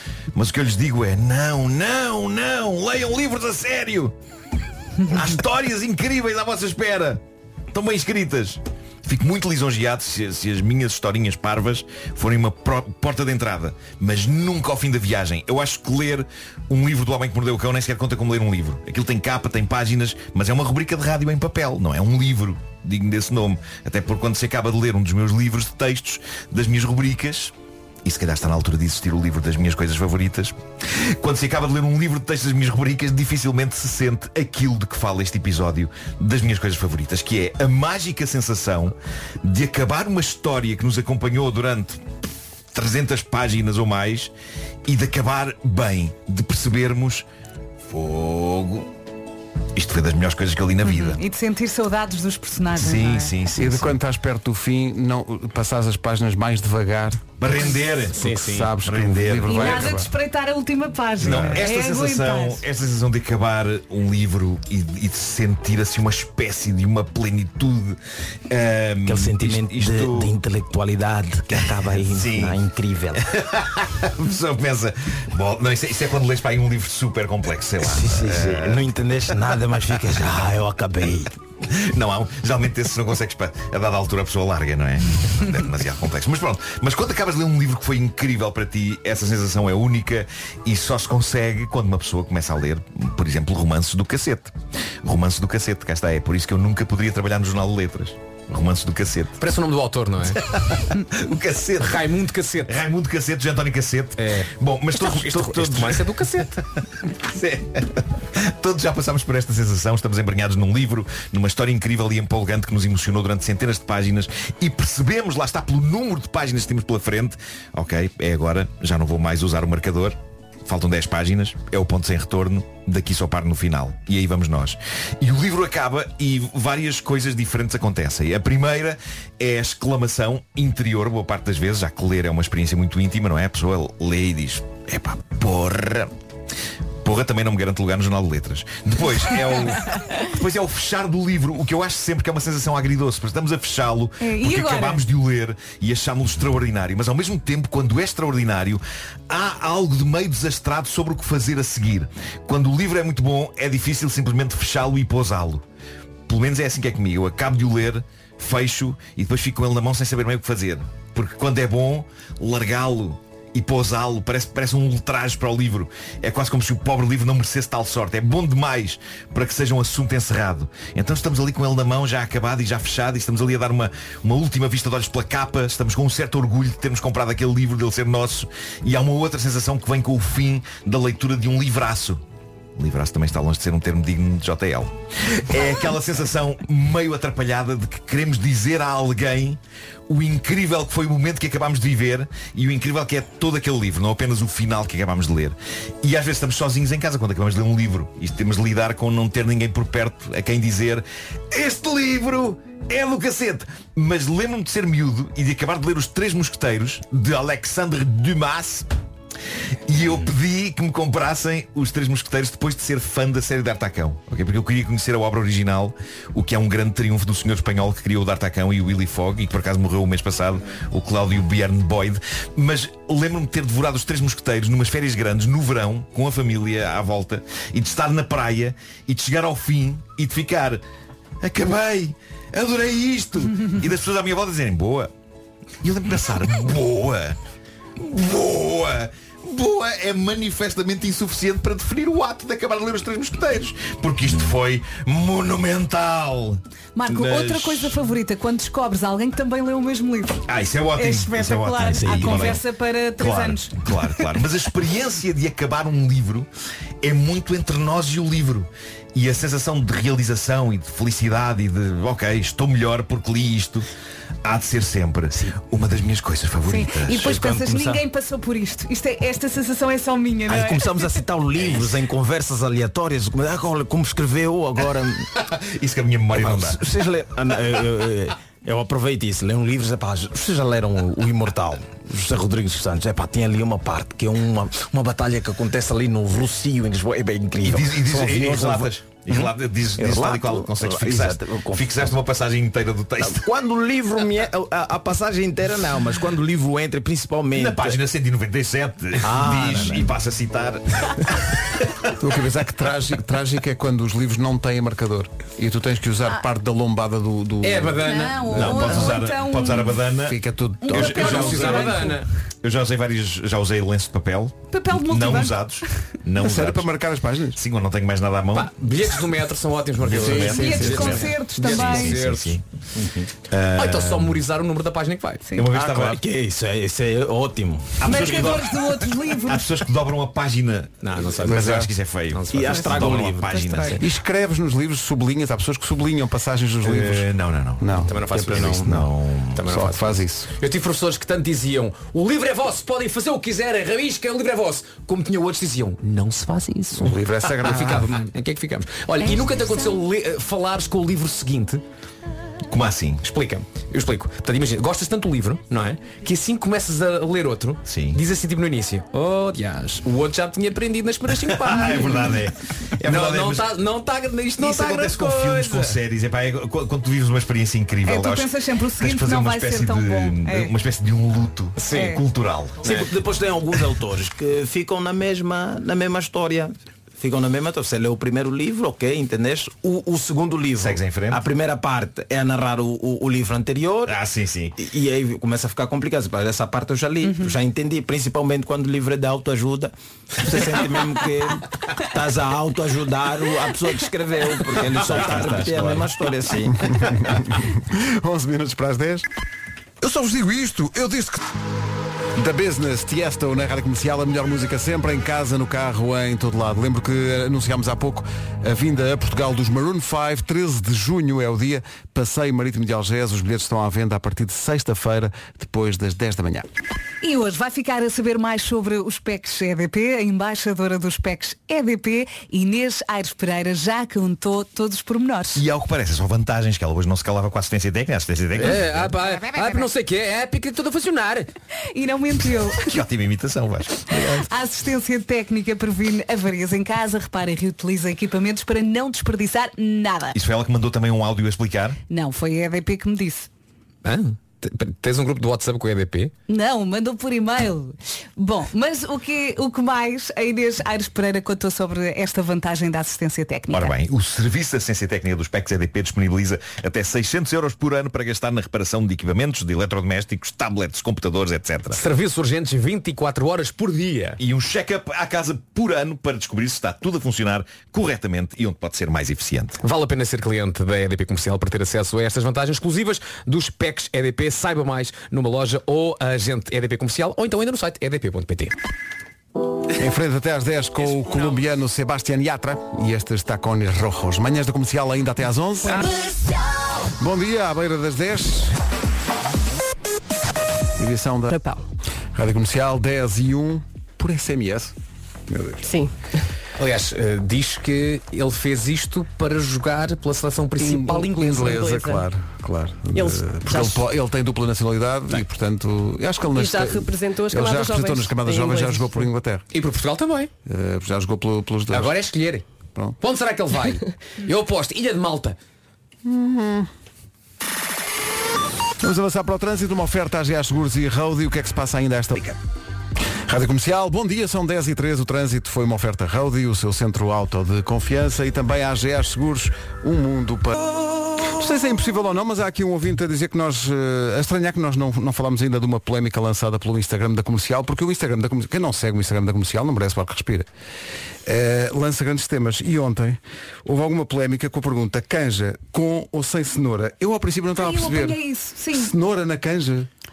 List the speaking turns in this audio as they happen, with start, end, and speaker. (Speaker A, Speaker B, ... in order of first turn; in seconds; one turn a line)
Speaker A: 0.3-4.1
Speaker A: 5.1-27.5
Speaker A: 28.0-42.0
Speaker A: 42.7-44.3
Speaker A: 44.9-47.2
Speaker A: 47.9-48.9
Speaker A: 49.7-51.2
Speaker B: 50.8-53.3
Speaker A: 52.8-54.0
Speaker C: 53.6-57.3
Speaker A: 57.4-59.9
Speaker D: 58.1-58.7
Speaker C: 58.1-60.1
Speaker B: 59.5-62.6
Speaker A: 61.2-70.3
Speaker C: 61.2-61.6
Speaker E: 69.0-73.2
Speaker A: 71.5-72.6
Speaker A: 73.2-78.9
Speaker E: 77.8-81.3
Speaker A: 81.7-99.4
Speaker D: 99.4-100.4
Speaker A: 100.3-102.1
Speaker D: 101.8-102.7
Speaker A: 102.7-106.4
Speaker D: 104.2-106.6
Speaker A: 107.1-136.1
Speaker A: 137.0-155.6
Speaker B: 144.2-145.0
Speaker A: 156.3-182.2
Speaker A: 182.8-208.9
Speaker A: 209.8-230.8
Speaker A: 231.4-235.1
Speaker A: 235.8-237.4
Speaker A: 238.0-248.0
Speaker B: 246.9-250.4
Speaker A: 250.5-252.6
Speaker B: 250.9-253.8
Speaker E: 251.9-252.6
Speaker A: 253.2-256.5
Speaker A: 257.0-263.9
Speaker A: 264.4-267.4
Speaker B: 266.6-271.1
Speaker E: 267.2-268.0
Speaker E: 270.5-275.3
Speaker A: 271.6-271.9
Speaker A: 275.4-276.8
Speaker E: 276.3-292.1
Speaker A: 287.6-293.4
Speaker E: 293.2-298.0
Speaker A: 297.5-302.0
Speaker E: 299.2-300.1
Speaker C: 302.2-308.0
Speaker D: 307.6-308.8
Speaker B: 308.0-310.1
Speaker A: 308.5-310.4
Speaker C: 310.2-311.9
Speaker B: 310.8-312.2
Speaker A: 310.9-312.1
Speaker D: 311.0-312.3
Speaker A: 312.6-317.0
Speaker B: 314.7-315.7
Speaker C: 316.4-317.6
Speaker A: 317.5-318.7
Speaker D: 318.5-322.6
Speaker A: 320.0-322.6
Speaker C: 320.1-321.2
Speaker B: 320.5-322.2
Speaker E: 323.0-323.3
Speaker A: 323.5-324.4
Speaker D: 323.7-325.5
Speaker A: 325.6-326.2
Speaker C: 325.7-326.2
Speaker E: 326.0-328.2
Speaker A: 328.0-328.8
Speaker B: 328.0-329.7
Speaker A: 329.4-334.0
Speaker D: 331.0-333.4
Speaker C: 331.4-331.9
Speaker E: 332.5-333.9
Speaker B: 332.7-333.9
Speaker C: 334.0-339.1
Speaker A: 336.8-339.6
Speaker D: 338.1-351.8
Speaker C: 339.6-340.5
Speaker C: 347.0-348.2
Speaker A: 352.7-353.2
Speaker D: 353.2-362.4
Speaker A: 357.9-358.2
Speaker A: 361.4-363.7
Speaker D: 363.0-366.0
Speaker A: 364.6-372.9
Speaker B: 368.1-370.7
Speaker D: 371.8-372.1
Speaker B: 371.9-372.2
Speaker E: 372.8-384.1
Speaker A: 380.8-381.4
Speaker A: 384.1-384.8
Speaker E: 384.8-397.0
Speaker A: 394.8-396.1
Speaker C: 396.9-399.2
Speaker C: 400.0-401.4
Speaker C: 402.4-416.6
Speaker B: 417.2-425.6
Speaker A: 425.6-429.2
Speaker D: 428.6-431.5
Speaker B: 431.9-432.9
Speaker A: 432.8-434.4
Speaker B: 434.2-440.4
Speaker A: 440.3-442.0
Speaker B: 442.1-443.5
Speaker D: 444.0-446.3
Speaker B: 446.5-453.9
Speaker A: 453.7-462.0
Speaker D: 461.9-464.4
Speaker A: 464.4-469.8
Speaker D: 469.8-478.7
Speaker C: 479.9-486.1
Speaker D: 481.0-481.6
Speaker F: 485.9-486.2
Speaker C: 487.2-488.7
Speaker C: 491.0-491.5
Speaker F: 491.5-491.8
Speaker C: 492.3-494.9
Speaker C: 495.5-495.8
Speaker F: 495.8-496.1
Speaker D: 496.8-501.8
Speaker C: 500.8-509.6
Speaker F: 500.9-502.2
Speaker F: 503.1-504.0
Speaker F: 506.5-509.3
Speaker D: 509.7-510.5
Speaker C: 510.6-512.1
Speaker D: 511.9-512.6
Speaker D: 513.2-515.6
Speaker C: 516.2-516.9
Speaker C: 519.0-522.5
Speaker C: 523.5-530.8
Speaker C: 531.4-540.7
Speaker C: 541.4-548.4
Speaker B: 547.8-549.1
Speaker C: 548.9-550.1